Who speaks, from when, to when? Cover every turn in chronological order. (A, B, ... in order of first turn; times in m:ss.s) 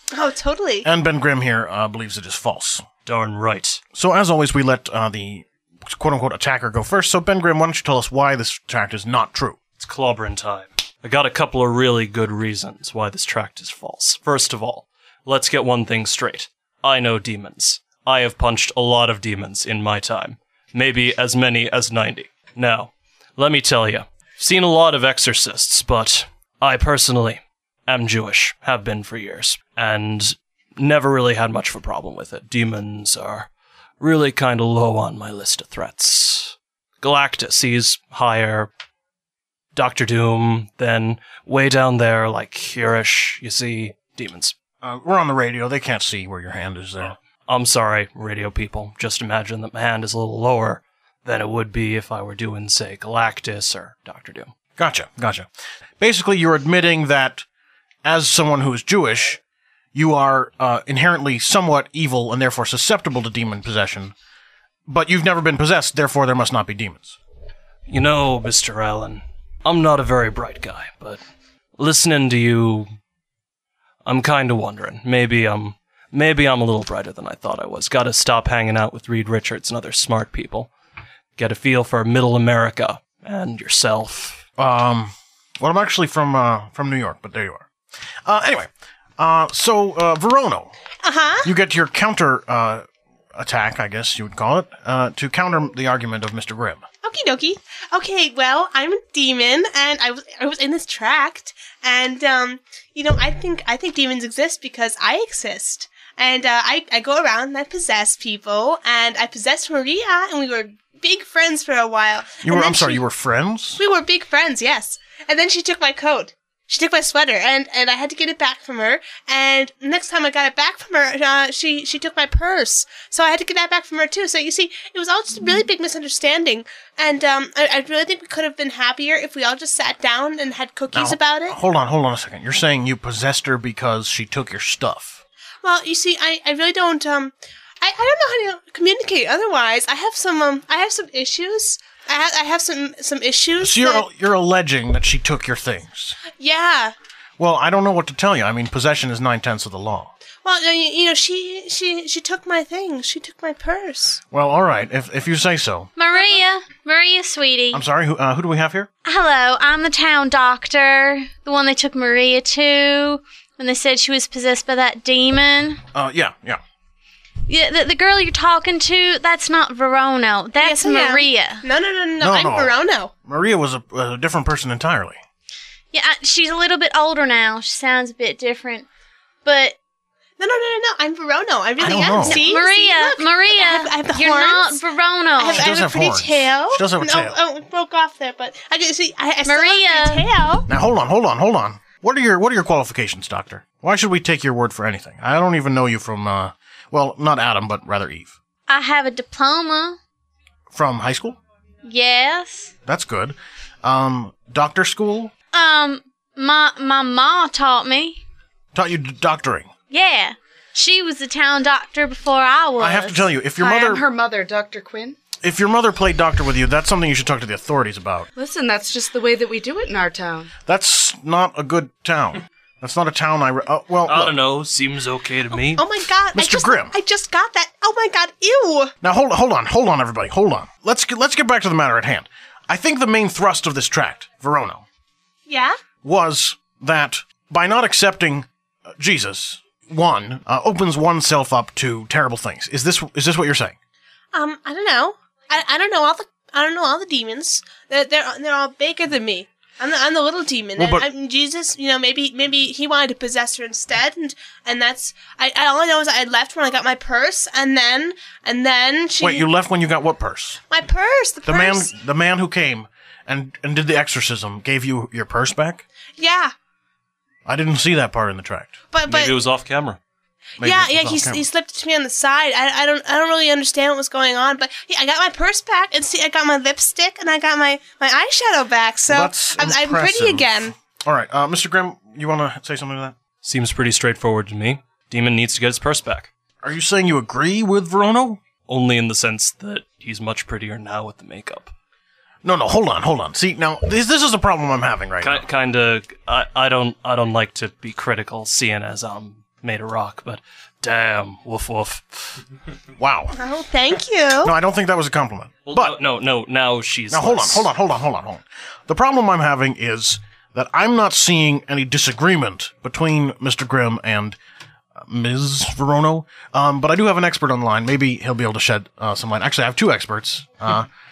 0:00.2-0:00.9 A
0:00.8-0:02.9 B
0:03.1-0:03.8 C
0:03.9-0:09.6 B
0:09.8-0:33.5 C
0:34.0-0:38.7 C
0:39.7-0:44.6 C
0:44.8-0:47.2 B
0:47.5-0:54.5 C
0:54.8-0:55.5 B
0:56.0-0:57.5 B
0:58.0-0:59.4 B
0:59.9-1:04.1 B
1:04.9-1:07.2 B
1:07.9-1:11.2 C
1:11.8-1:12.9 C
1:14.0-1:20.7 C
1:21.4-1:24.4 C
1:24.6-1:27.7 B
1:28.2-1:30.7 B
1:31.0-1:31.5 A
1:31.4-1:36.8 B
1:37.0-1:53.0 A
1:52.4-1:53.8 B
1:53.8-2:11.6 A
2:10.9-2:15.2 B
2:15.6-2:24.0 A
2:23.6-2:26.2 B
2:26.4-2:26.9 A
2:27.4-2:30.1 B
2:30.4-2:34.2 A
2:34.3-2:36.0 B
2:36.0-2:37.8 D
2:36.1-2:36.4 A
2:37.7-2:38.9 B
2:39.0-2:45.8 D
2:45.9-2:46.6 B
2:47.5-2:51.6 D
2:50.6-2:53.1 A
2:52.2-2:55.2 B
2:55.9-2:58.9 D
2:59.4-2:59.8 D
3:00.4-3:04.8 A
3:01.8-3:02.3 B
3:02.2-3:05.6 D
3:05.4-3:10.6 A
3:05.4-3:07.4 B
3:09.5-3:10.3 D
3:10.7-3:18.4 B
3:18.7-3:20.0 D
3:20.7-3:21.4 B
3:21.8-3:22.7 D
3:22.9-3:25.3 B
3:25.5-3:28.2 D
3:28.8-3:29.7 B
3:29.9-3:33.3 D
3:32.8-3:34.1 B
3:33.6-3:35.2 E
3:35.4-3:38.3 B
3:38.4-3:40.5 E
3:40.6-3:44.4 B
3:44.1-3:45.9 C
3:45.5-3:48.9 A
3:46.3-3:47.0 B
3:49.0-3:54.8 B
3:55.5-3:55.8 A
3:56.0-3:58.5 B
3:59.0-4:03.8 B
4:04.3-4:19.5 A
4:10.8-4:11.0 B
4:19.2-4:20.6 B
4:20.7-4:21.9 A
4:21.4-4:25.8 B
4:26.2-4:26.5 A
4:27.5-4:28.9 B
4:28.9-4:29.3 A
4:29.1-4:30.0 C
4:30.6-4:31.4 B
4:30.6-4:40.7 A
4:39.1-4:43.2 B
4:43.4-4:46.3 C
4:46.6-4:48.4 B
4:48.6-4:51.7 C
4:52.4-4:55.4 B
4:55.2-5:02.4 C
5:03.0-5:03.4 B
5:03.4-5:04.5 A
5:04.4-5:06.0 B
5:05.7-5:07.7 C
5:07.1-5:14.4 B
5:15.0-5:20.9 B